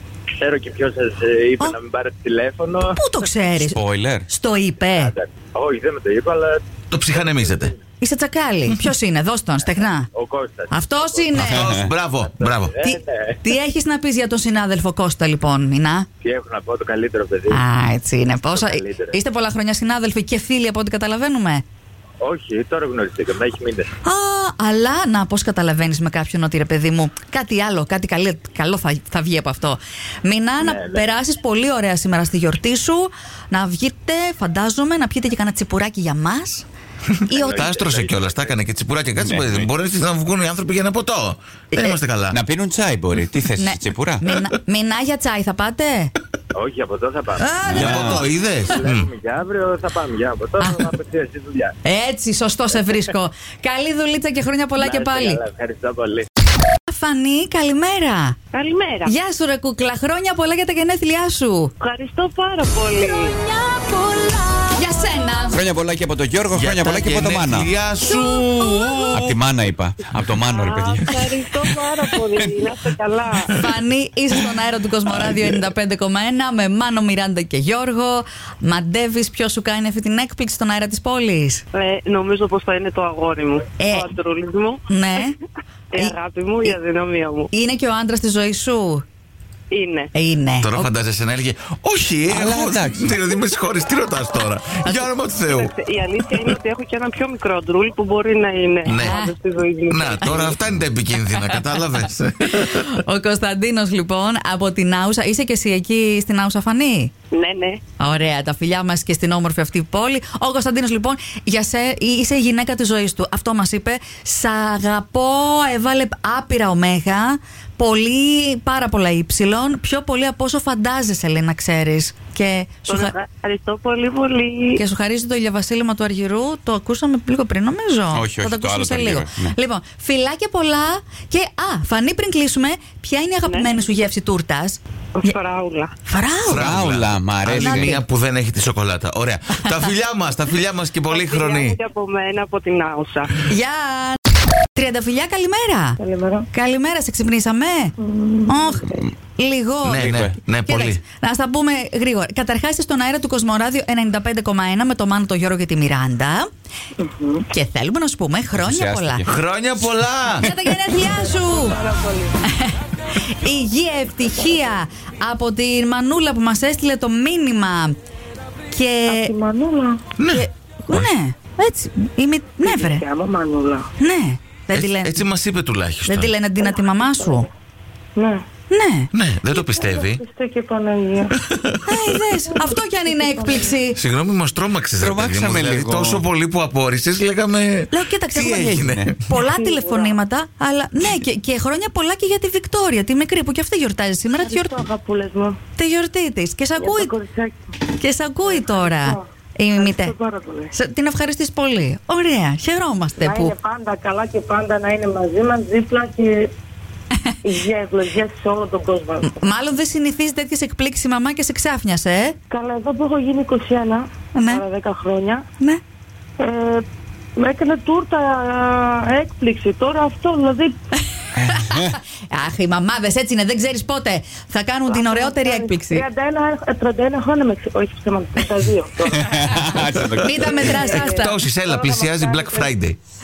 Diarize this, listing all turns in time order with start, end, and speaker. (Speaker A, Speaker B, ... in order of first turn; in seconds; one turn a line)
Speaker A: 0.4-3.0
Speaker B: 2.8-5.1
Speaker C: 3.6-4.2
Speaker A: 4.9-7.8
Speaker D: 6.9-7.7
Speaker B: 8.0-10.1
Speaker A: 10.1-11.4
Speaker B: 10.7-11.7
Speaker D: 11.3-12.7
Speaker C: 11.4-11.9
Speaker A: 12.2-13.3
Speaker B: 12.8-16.1
Speaker A: 16.2-17.6
Speaker B: 17.5-21.6
Speaker A: 18.5-19.2
Speaker A: 22.2-23.9
Speaker B: 24.0-36.6
Speaker A: 30.6-31.0
Speaker B: 37.3-37.6
Speaker A: 37.3-38.5
Speaker D: 37.4-42.4
Speaker C: 39.2-39.7
Speaker C: 42.3-44.2
Speaker B: 43.6-46.1
Speaker A: 46.5-47.6
Speaker B: 47.4-48.2
Speaker D: 47.6-49.1
Speaker C: 47.6-48.2
Speaker A: 48.7-51.7
Speaker B: 51.8-55.4
Speaker A: 54.8-56.3
Speaker B: 56.9-58.4
Speaker E: 58.5-59.1
Speaker B: 59.0-61.7
Speaker E: 61.8-63.5
Speaker B: 63.6-65.6
Speaker C: 65.5-67.7
Speaker D: 66.5-69.4
Speaker C: 69.1-71.4
Speaker E: 70.5-73.5
Speaker B: 73.5-81.6
Speaker E: 81.7-85.2
Speaker B: 83.8-84.1
Speaker B: 84.9-85.3
Speaker E: 85.9-87.5
Speaker B: 87.5-89.0
Speaker E: 89.7-90.1
Speaker B: 90.1-90.9
Speaker D: 90.6-95.7
Speaker C: 92.3-93.0
Speaker E: 95.5-100.5
Speaker D: 98.8-99.2
Speaker B: 98.9-99.3
Speaker D: 99.9-103.0
Speaker B: 102.4-107.1
Speaker E: 107.3-107.8
Speaker B: 108.0-123.1
Speaker E: 122.9-124.8
Speaker B: 124.8-135.3
Speaker C: 128.1-129.6
Speaker E: 133.4-133.7
Speaker E: 135.2-135.9
Speaker B: 136.0-136.7
Speaker D: 136.4-141.8
Speaker C: 136.5-138.0
Speaker B: 137.5-138.0
Speaker B: 139.6-139.9
Speaker E: 141.1-143.3
Speaker B: 143.4-144.2
Speaker B: 144.7-146.0
Speaker F: 146.0-146.5
Speaker B: 146.5-147.9
Speaker F: 148.0-148.8
Speaker B: 148.5-150.0
Speaker D: 149.8-151.0
Speaker C: 149.8-150.4
Speaker B: 150.7-156.5
Speaker F: 157.0-157.4
Speaker B: 157.5-159.2
Speaker C: 158.5-159.4
Speaker D: 159.2-160.4
Speaker B: 160.4-161.8
Speaker F: 161.2-162.4
Speaker B: 162.4-162.7
Speaker B: 163.2-167.9
Speaker B: 168.7-169.3
Speaker F: 169.1-170.0
Speaker D: 170.2-171.1
Speaker B: 170.3-173.0
Speaker F: 172.6-173.9
Speaker B: 174.0-175.2
Speaker D: 174.7-176.3
Speaker B: 176.0-177.5
Speaker F: 176.6-177.5
Speaker F: 178.2-178.4
Speaker B: 178.7-179.1
Speaker D: 179.1-180.2
Speaker F: 179.5-181.3
Speaker D: 181.4-182.2
Speaker B: 181.8-184.0
Speaker F: 182.5-183.8
Speaker D: 183.9-189.2
Speaker C: 185.0-186.2
Speaker B: 187.9-194.8
Speaker C: 188.4-189.1
Speaker F: 189.4-190.2
Speaker F: 194.4-195.6
Speaker B: 195.8-197.1
Speaker F: 196.8-197.7
Speaker B: 197.9-200.1
Speaker F: 198.5-199.2
Speaker F: 199.7-200.7
Speaker B: 200.7-203.5
Speaker F: 203.2-206.5
Speaker F: 207.4-209.5
Speaker B: 209.2-212.4
Speaker F: 212.5-215.4
Speaker B: 214.3-214.6
Speaker F: 216.4-216.8
Speaker F: 217.3-220.8
Speaker B: 221.4-226.0
Speaker C: 221.6-221.9
Speaker F: 224.9-229.6
Speaker C: 229.1-230.7
Speaker D: 230.0-233.0
Speaker B: 230.2-231.3
Speaker F: 230.4-232.7